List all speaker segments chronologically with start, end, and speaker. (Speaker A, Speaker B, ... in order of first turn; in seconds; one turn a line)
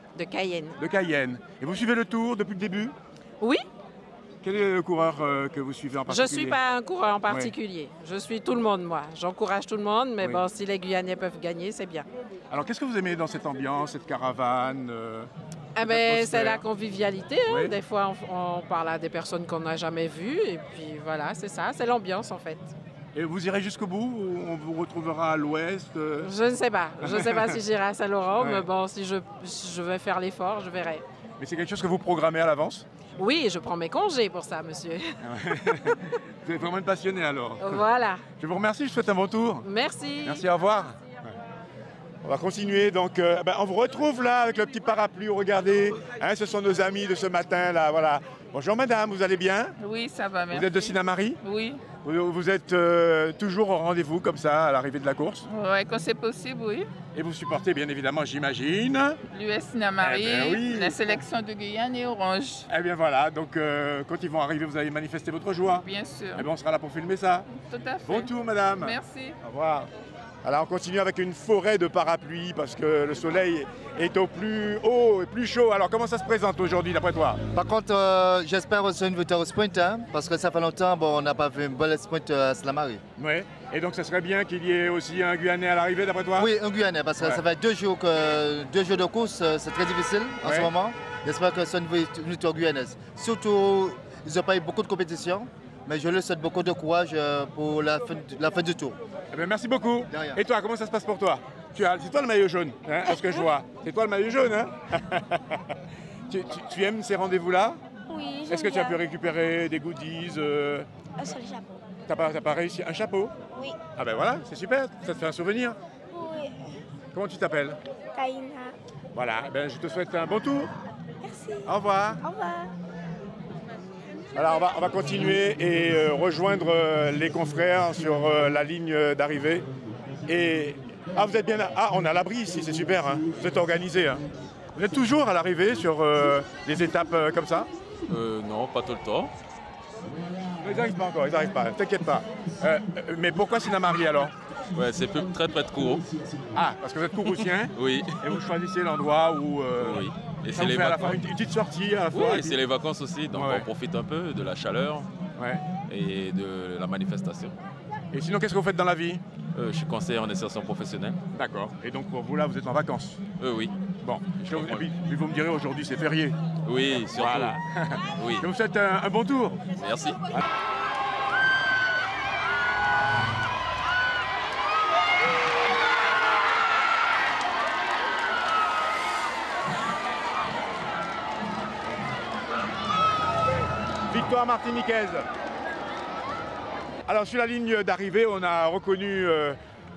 Speaker A: 0.1-0.8
Speaker B: 0.8-2.9
Speaker A: 3.4-3.6
Speaker B: 4.4-6.6
Speaker A: 6.1-12.1
Speaker B: 12.5-15.3
Speaker A: 15.8-22.7
Speaker B: 15.8-16.6
Speaker B: 17.5-17.8
Speaker B: 23.1-26.3
Speaker A: 26.2-31.0
Speaker B: 27.0-27.6
Speaker B: 28.4-28.6
Speaker B: 31.4-32.9
Speaker A: 33.2-35.2
Speaker B: 35.2-37.8
Speaker A: 35.7-36.0
Speaker A: 37.6-38.2
Speaker B: 38.4-39.6
Speaker A: 39.6-40.4
Speaker B: 40.2-41.0
Speaker B: 42.2-49.7
Speaker C: 49.8-50.9
Speaker B: 50.5-51.4
Speaker C: 51.4-51.8
Speaker B: 51.9-55.4
Speaker C: 55.5-56.9
Speaker B: 57.1-59.2
Speaker C: 59.3-62.6
Speaker B: 60.0-61.2
Speaker B: 62.7-67.5
Speaker C: 65.6-66.5
Speaker C: 67.5-69.3
Speaker B: 68.0-69.9
Speaker B: 70.4-77.4
Speaker D: 77.5-83.0
Speaker B: 83.2-86.5
Speaker D: 86.4-99.0
Speaker B: 90.4-90.7
Speaker B: 99.3-105.6
Speaker D: 100.1-100.4
Speaker B: 106.3-107.8
Speaker E: 108.1-109.0
Speaker B: 108.5-110.9
Speaker E: 111.2-111.7
Speaker B: 112.0-113.3
Speaker B: 113.9-115.8
Speaker E: 116.1-116.6
Speaker B: 117.1-117.8
Speaker E: 118.1-118.8
Speaker B: 119.1-120.7
Speaker E: 121.2-121.7
Speaker B: 121.6-122.2
Speaker E: 122.2-122.7
Speaker B: 124.3-129.7
Speaker B: 130.2-134.2
Speaker B: 134.7-137.7
Speaker F: 138.1-139.3
Speaker B: 140.6-144.3
Speaker F: 144.7-146.1
Speaker B: 146.5-152.6
Speaker F: 147.7-148.3
Speaker F: 149.8-151.3
Speaker F: 152.1-155.1
Speaker B: 153.3-153.7
Speaker B: 155.4-155.6
Speaker F: 155.9-157.6
Speaker B: 158.1-159.2
Speaker F: 159.5-161.2
Speaker B: 161.3-163.2
Speaker F: 163.4-163.8
Speaker B: 164.0-166.3
Speaker F: 164.4-164.9
Speaker F: 166.6-167.6
Speaker B: 167.1-169.6
Speaker F: 168.2-168.5
Speaker F: 169.8-170.2
Speaker B: 184.1-185.2
Speaker B: 187.1-189.6